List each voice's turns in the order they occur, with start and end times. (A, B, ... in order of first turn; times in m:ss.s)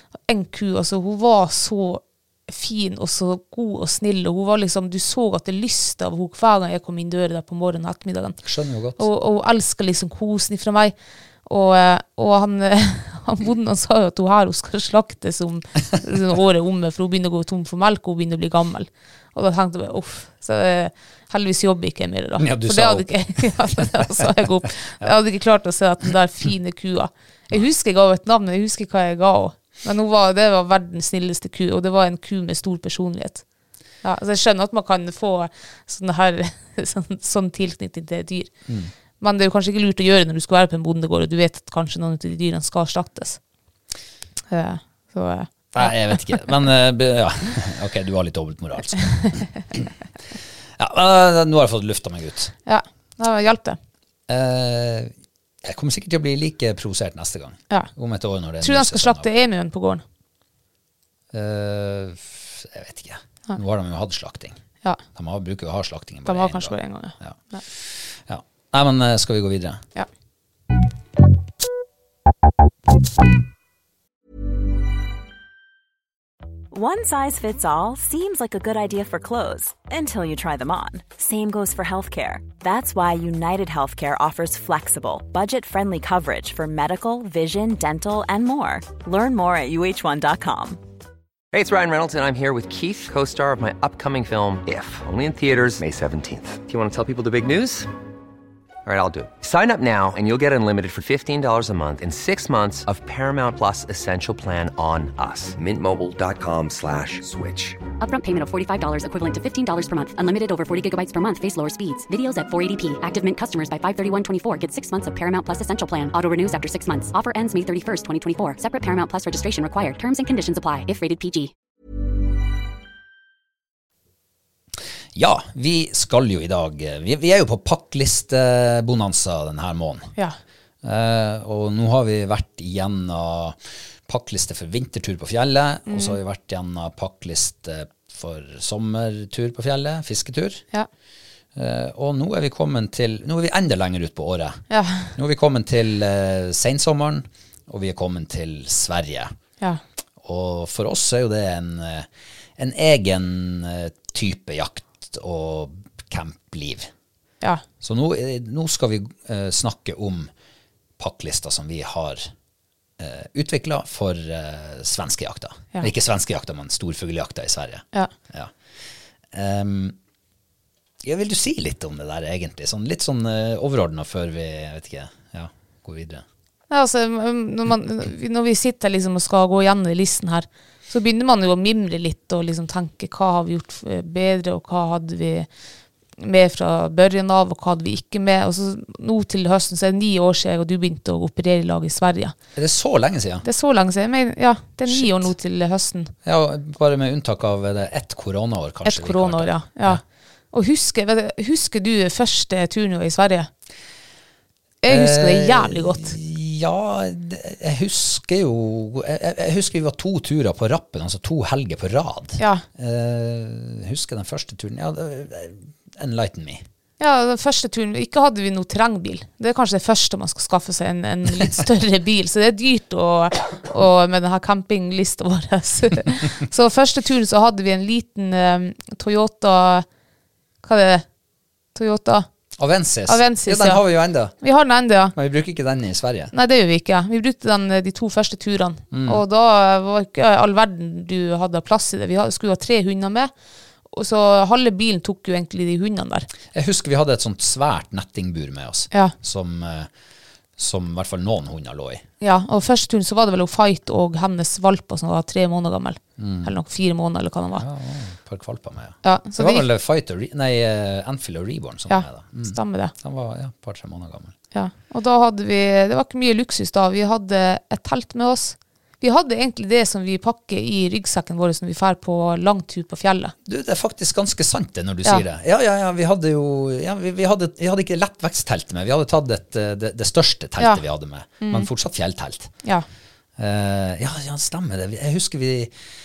0:00.2-0:08.4 A
0:08.4-0:09.0 B
0:09.0-0:33.4 A
0:22.4-0:24.3 B
0:34.0-0:38.5 A
0:38.7-0:38.9 B
0:39.2-0:43.4 A
0:44.5-0:46.4 A
0:45.7-0:49.9 B
0:50.8-0:52.5 B
0:52.6-0:53.8 A
0:54.3-0:55.1 B
0:55.6-0:59.3 B
0:58.6-1:00.0 A
1:01.3-1:04.6 B
1:05.1-1:09.8 B
1:06.2-1:07.6 A
1:16.7-1:30.8 C
1:31.5-1:37.9 D
1:38.8-1:47.8 D
1:48.0-2:01.5 E
2:05.1-2:10.1 B
2:10.8-2:20.6 B
2:15.9-2:16.2 A
2:21.5-2:24.6 B
2:24.7-2:25.1 A
2:25.1-2:29.3 B
2:30.2-2:36.9 B
2:37.8-2:40.3 B
2:41.0-2:42.3 B
2:43.0-2:48.5 B
2:49.3-2:50.0 B
2:51.0-2:56.2 B
2:56.7-3:05.5 A
3:06.2-3:12.3 A
3:12.6-3:13.4 B
3:13.4-3:16.1 A
3:14.8-3:15.3 B
3:16.2-3:20.0 B
3:18.8-3:20.0 A
3:20.5-3:23.5 A
3:24.8-3:26.1 A
3:24.9-3:36.6 B
3:32.4-3:32.6 A
3:37.0-3:49.8 A
3:50.6-3:51.0 A
3:51.7-3:52.3 A
3:52.6-3:54.4 B
3:53.1-3:53.8 A
3:54.4-3:55.1 A
3:55.1-3:56.3 B
3:56.3-4:03.3 A
3:58.9-3:59.2 B
4:03.9-4:06.3 A
4:06.5-4:09.9 B
4:10.6-4:12.0 B
4:12.2-4:17.6 A
4:16.2-4:16.5 B
4:17.6-4:24.4 B
4:19.0-4:19.6 A
4:21.9-4:22.9 A
4:24.5-4:33.3 A
4:33.4-4:42.5 B
4:41.4-4:41.7 A
4:43.4-4:45.7 B